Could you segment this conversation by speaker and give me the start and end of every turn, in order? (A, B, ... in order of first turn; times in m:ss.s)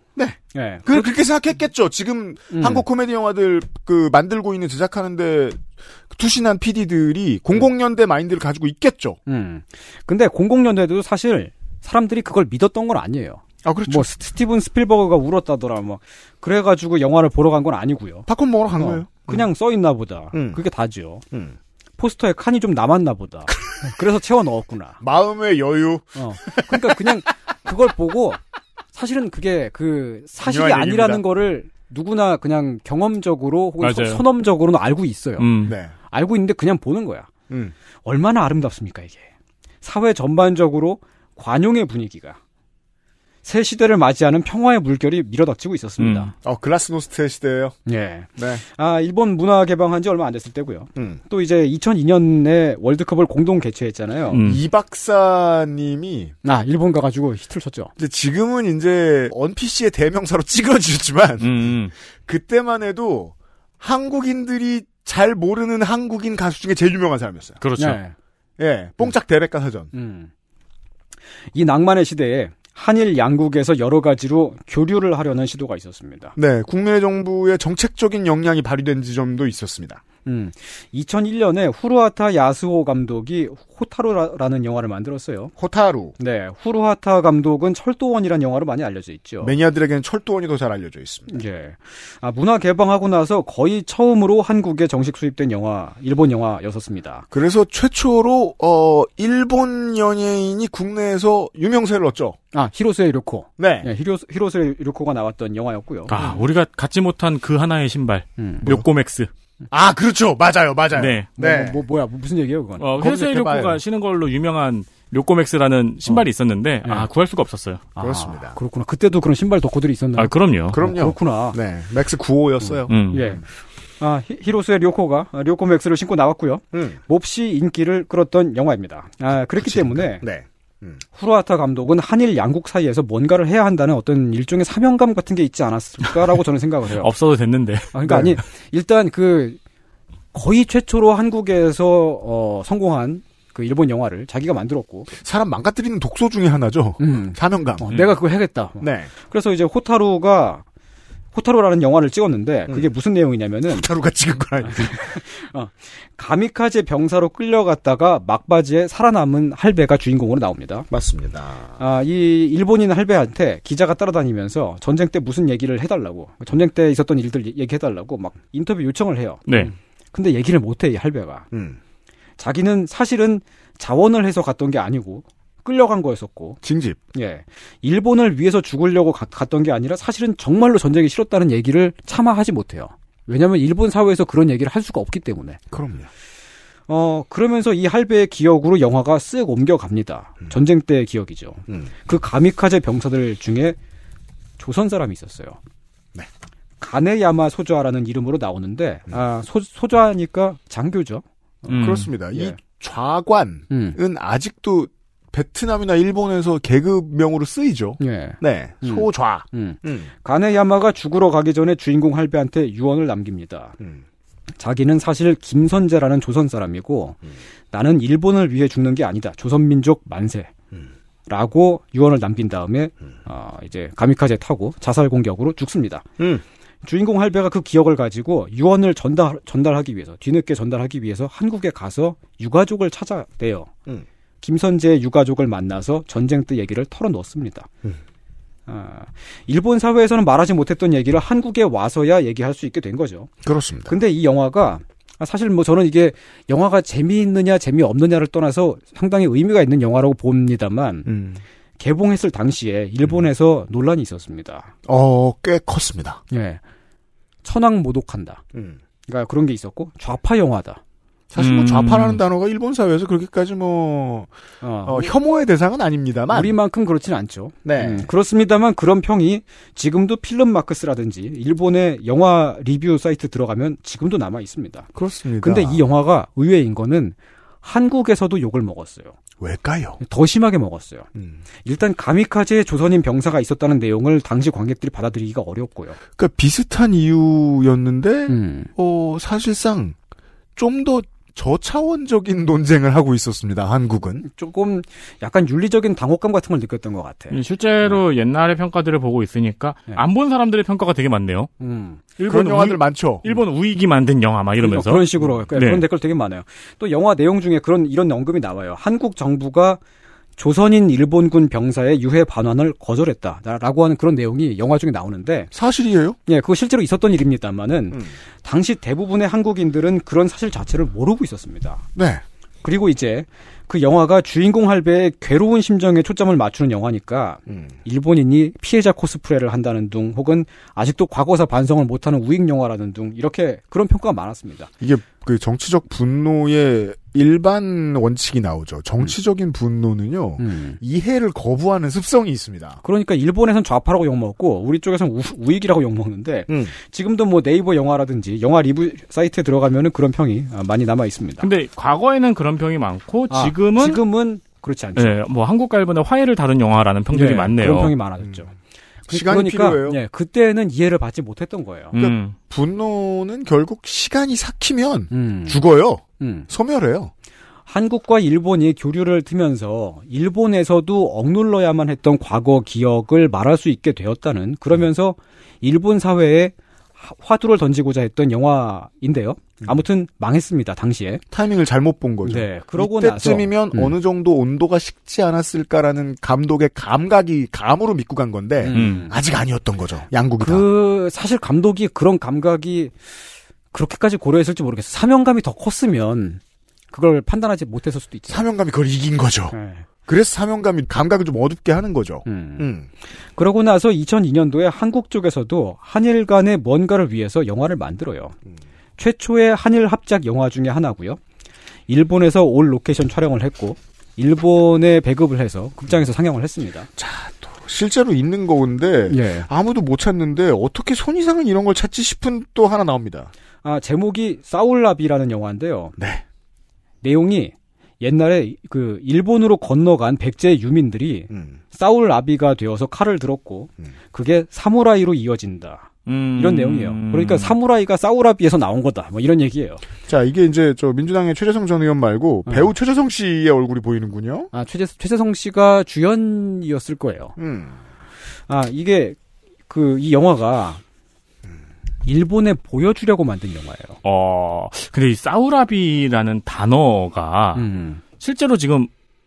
0:00.2-0:09.2 A
0:00.5-0:01.1 B
0:02.5-0:02.8 B
0:09.3-0:21.2 B
0:13.6-0:14.1 A
0:18.3-0:19.4 A
0:20.3-0:20.6 A
0:21.3-0:21.6 A
0:22.0-0:25.0 B
0:25.0-0:27.1 A
0:26.2-0:28.4 B
0:28.9-0:35.5 B
0:30.4-0:31.2 A
0:33.8-0:34.2 C
0:35.4-0:35.7 C
0:35.6-0:35.9 A
0:36.1-0:37.3 B
0:38.0-0:39.3 B
0:39.8-0:42.4 B
0:43.4-0:46.3 B
0:46.0-0:46.3 C
0:46.4-0:47.7 A
0:47.8-0:54.4 B
0:48.4-0:48.6 A
0:51.0-0:51.2 A
0:54.3-0:54.6 C
0:54.4-0:56.3 A
0:56.4-0:57.9 B
0:58.0-1:01.7 A
1:01.4-1:01.9 C
1:02.2-1:07.6 A
1:07.6-1:08.0 C
1:07.8-1:08.1 B
1:08.6-1:09.9 A
1:09.9-1:10.3 B
1:11.5-1:16.3 B
1:16.4-1:20.0 A
1:20.2-1:25.5 B
1:25.6-1:26.1 A
1:26.2-1:29.5 B
1:29.4-1:31.4 A
1:31.3-1:37.2 B
1:37.3-1:42.4 A
1:42.5-1:46.1 B
1:43.6-1:43.9 A
1:46.1-1:49.3 C
1:48.4-1:48.6 B
1:49.7-1:51.8 A
1:50.9-1:51.3 C
1:51.4-1:52.9 B
1:52.8-1:57.8 C
1:53.0-1:53.8 A
1:57.9-2:01.6 B
1:58.0-1:58.6 A
2:00.2-2:00.8 C
2:00.7-2:03.4 A
2:02.9-2:03.2 C
2:03.1-2:03.4 B
2:04.0-2:10.2 B
2:06.7-2:07.0 A
2:09.6-2:11.0 A
2:11.1-2:17.1 B
2:17.0-2:18.2 C
2:17.9-2:19.6 B
2:18.0-2:18.3 A
2:20.3-2:25.1 B
2:25.2-2:27.9 A
2:27.0-2:30.6 B
2:28.8-2:29.1 A
2:31.3-2:33.9 B
2:33.7-2:35.2 A
2:34.6-2:40.9 B
2:40.9-2:41.8 A
2:41.8-2:51.4 B
2:51.5-2:51.8 A
2:52.4-2:56.6 B
2:56.6-2:57.0 A
2:57.1-3:05.6 B
3:05.7-3:06.1 A
3:06.9-3:13.8 B
3:14.6-3:15.6 B
3:16.8-3:22.6 B
3:21.7-3:22.1 C
3:21.7-3:30.1 A
3:23.7-3:24.0 B
3:28.0-3:33.8 B
3:34.6-3:37.2 B
3:37.7-3:40.5 B
3:41.3-3:46.0 B
3:46.2-3:46.4 A
3:46.8-3:53.7 B
3:54.4-3:57.7 B
3:58.7-4:03.3 B
4:03.4-4:04.0 A
4:03.9-4:11.1 B
4:11.0-4:11.4 A
4:11.8-4:14.7 B
4:14.8-4:16.2 A
4:16.3-4:16.6 B
4:17.4-4:18.4 B
4:18.5-4:18.8 A
4:19.1-4:20.8 B
4:21.3-4:24.3 A
4:21.4-4:22.2 C
4:24.6-4:25.1 B
4:24.8-4:26.6 A
4:26.3-4:34.9 B
4:27.6-4:28.1 A
4:34.9-4:35.8 A
4:35.4-4:39.2 B
4:39.4-4:40.0 A
4:40.0-4:41.1 B
4:41.1-4:41.4 A
4:41.6-4:46.0 B
4:46.2-4:50.0 A
4:48.3-4:48.7 B
4:50.6-4:54.2 A
4:54.2-4:57.4 B
4:57.3-5:01.5 C
5:01.6-5:02.0 B
5:02.2-5:05.8 C
5:02.2-5:03.3 A
5:04.6-5:09.8 B
5:10.4-5:15.5 B
5:15.5-5:16.2 A
5:16.3-5:21.8 B
5:21.9-5:22.2 A
5:22.6-5:34.7 B
5:27.5-5:27.7 A
5:34.8-5:42.8 A
5:40.4-5:40.8 B
5:42.8-5:51.5 B
5:46.5-5:46.7 A
5:51.4-5:54.0 C
5:53.3-5:55.1 B
5:55.0-5:57.9 C
5:57.1-5:58.5 B
5:59.1-6:00.0 A
5:59.1-6:01.9 B
6:01.9-6:02.3 C
6:01.9-6:07.1 A
6:05.1-6:05.6 B
6:06.2-6:06.5 B
6:07.7-6:21.2 B
6:21.3-6:30.7 A
6:22.2-6:23.9 B
6:28.6-6:29.2 B
6:28.7-6:29.1 C
6:30.4-6:32.9 B
6:33.7-6:36.4 B
6:36.9-6:38.4 B
6:38.3-6:39.5 A
6:39.5-6:39.8 B
6:40.1-6:42.9 A
6:42.2-6:42.7 B
6:43.3-6:48.3 B
6:49.0-6:51.2 B
6:51.9-6:56.9 B
6:57.0-7:03.3 A
6:59.1-6:59.5 B
7:03.6-7:05.9 B
7:06.0-7:06.2 A
7:07.0-7:19.8 B
7:11.3-7:11.6 A
7:16.0-7:17.5 C
7:20.1-7:24.5 A
7:24.5-7:27.4 B
7:27.4-7:27.8 A
7:28.5-7:29.2 B
7:29.7-7:30.8 B
7:32.0-7:34.0 B
7:34.0-7:37.6 C
7:37.5-7:38.0 B
7:38.2-7:38.9 C